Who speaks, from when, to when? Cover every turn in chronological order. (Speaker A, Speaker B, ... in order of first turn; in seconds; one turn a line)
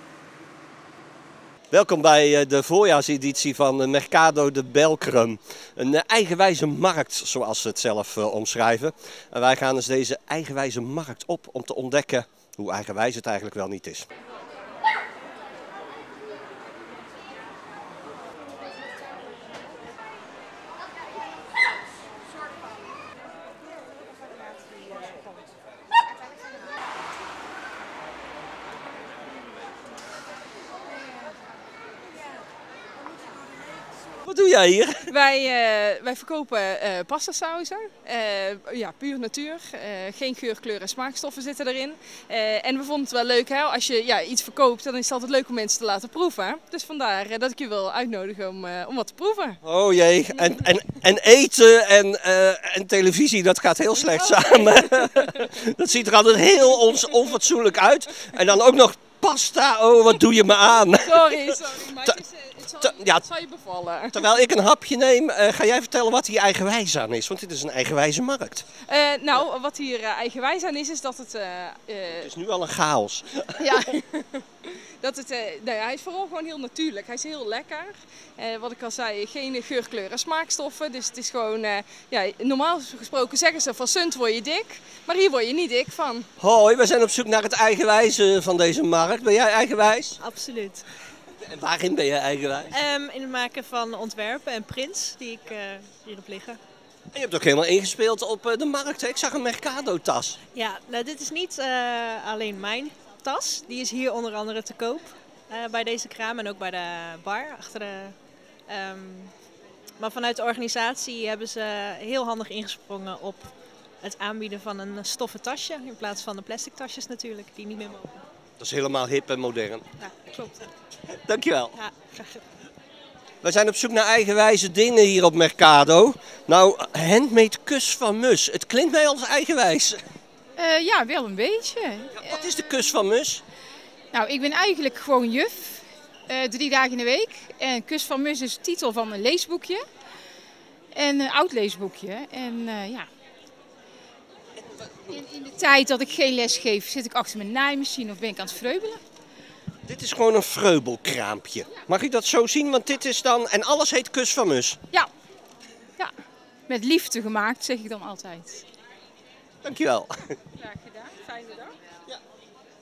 Speaker A: 1.7-14.1
Speaker A: 34.2-35.1
Speaker B: 35.1-49.6
Speaker A: 49.6-62.2
Speaker B: 54.1-55.5
Speaker B: 61.0-64.2
Speaker A: 62.8-63.3
Speaker A: 64.1-68.7
Speaker B: 68.9-72.3
Speaker A: 72.2-73.8
Speaker B: 74.1-86.3
Speaker A: 86.4-90.2
Speaker C: 90.2-90.9
Speaker A: 91.4-92.8
Speaker C: 92.7-96.6
Speaker A: 97.1-100.4
Speaker C: 100.5-108.2
Speaker C: 108.7-109.3
Speaker C: 110.0-118.2
Speaker A: 118.6-119.9
Speaker C: 120.0-120.6
Speaker A: 121.1-121.8
Speaker C: 121.7-122.4
Speaker A: 123.4-130.0
Speaker D: 130.6-132.3
Speaker A: 132.2-133.4
Speaker D: 134.1-139.8
Speaker D: 140.9-143.1
Speaker A: 144.7-145.2
Speaker D: 145.3-149.0
Speaker A: 149.9-154.8
Speaker D: 156.7-158.7
Speaker A: 159.6-160.3
Speaker D: 160.6-161.7